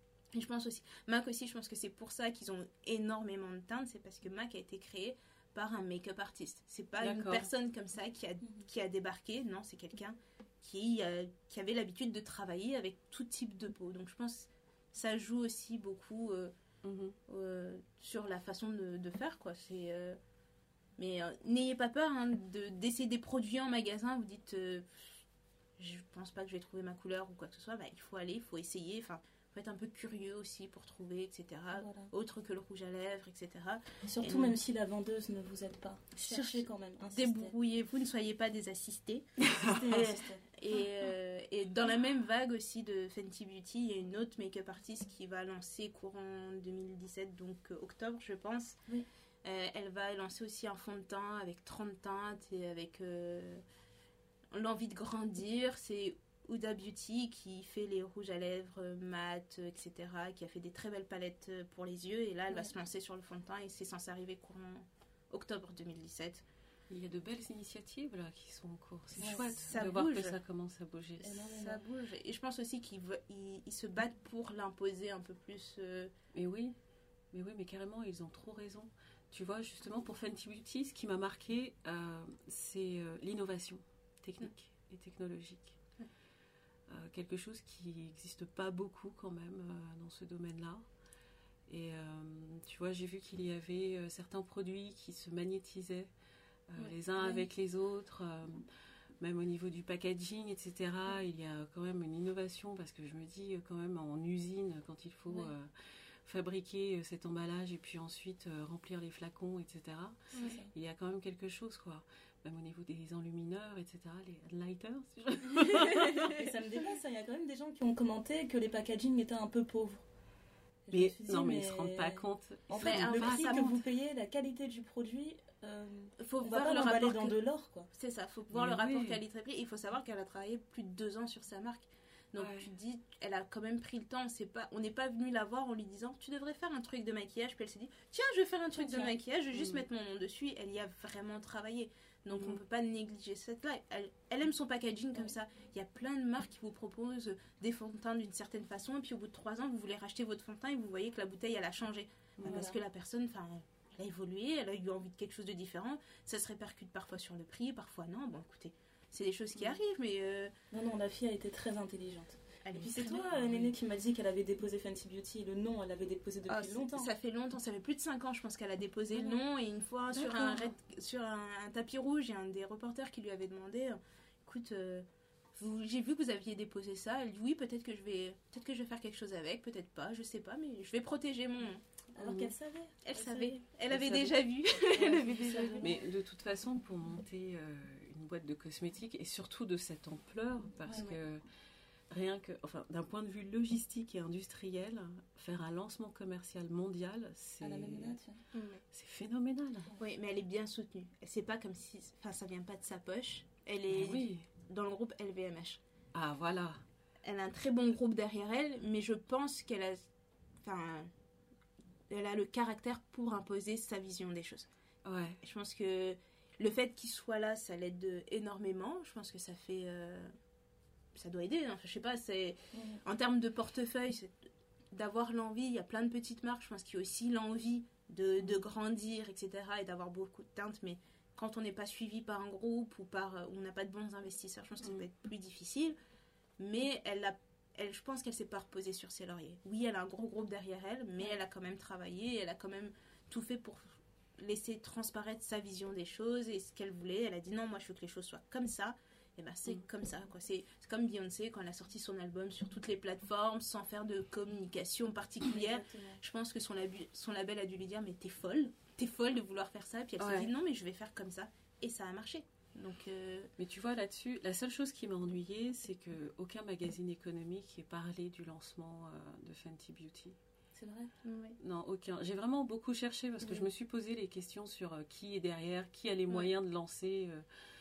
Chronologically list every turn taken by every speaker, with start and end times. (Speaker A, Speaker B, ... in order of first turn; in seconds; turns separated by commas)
Speaker A: 0.3-16.5, Speaker B: 7.0-7.5, Speaker B: 16.8-17.1, Speaker A: 17.3-20.2, Speaker A: 21.0-25.2, Speaker A: 25.8-34.6, Speaker C: 31.7-32.1, Speaker C: 34.1-37.5, Speaker A: 36.2-39.2, Speaker B: 39.5-39.8, Speaker C: 39.6-40.4, Speaker A: 40.5-48.8, Speaker A: 49.4-53.6, Speaker A: 54.5-66.4, Speaker B: 66.9-71.4, Speaker C: 69.2-69.4, Speaker A: 69.2-70.3, Speaker C: 71.2-71.8, Speaker A: 71.3-76.1, Speaker B: 76.3-76.7, Speaker B: 77.3-85.8, Speaker B: 86.9-90.8, Speaker B: 91.7-96.1, Speaker B: 96.7-98.6, Speaker B: 99.2-105.7, Speaker B: 106.2-116.4, Speaker A: 110.3-110.6, Speaker C: 110.4-110.7, Speaker C: 116.2-120.0, Speaker C: 120.9-127.9, Speaker B: 120.9-123.8, Speaker A: 122.8-123.7, Speaker A: 126.2-127.4, Speaker A: 127.9-160.5, Speaker B: 128.5-129.2, Speaker B: 132.4-132.7, Speaker B: 138.8-139.8, Speaker B: 142.3-142.6, Speaker B: 152.4-152.7, Speaker C: 152.4-152.8, Speaker C: 160.7-167.1, Speaker A: 162.6-163.4, Speaker A: 166.5-175.0, Speaker C: 169.1-169.4, Speaker B: 170.2-170.7, Speaker A: 175.6-181.8, Speaker C: 182.1-186.0, Speaker B: 182.2-182.5, Speaker A: 183.0-185.9, Speaker B: 185.8-191.4, Speaker A: 190.9-191.2, Speaker B: 192.1-198.2, Speaker C: 197.6-198.4, Speaker A: 198.5-198.8, Speaker B: 198.9-199.9, Speaker A: 199.9-205.8, Speaker B: 203.9-204.4, Speaker B: 206.1-206.8, Speaker A: 207.2-210.1, Speaker A: 210.6-211.1, Speaker A: 212.1-214.7, Speaker B: 215.0-215.4, Speaker A: 215.4-220.3, Speaker A: 221.2-224.3, Speaker C: 222.7-223.0, Speaker A: 224.9-235.9, Speaker A: 236.6-263.5, Speaker C: 255.4-256.2, Speaker B: 260.2-260.5, Speaker B: 263.6-270.4, Speaker C: 270.7-271.1, Speaker A: 271.2-271.6, Speaker B: 271.6-277.4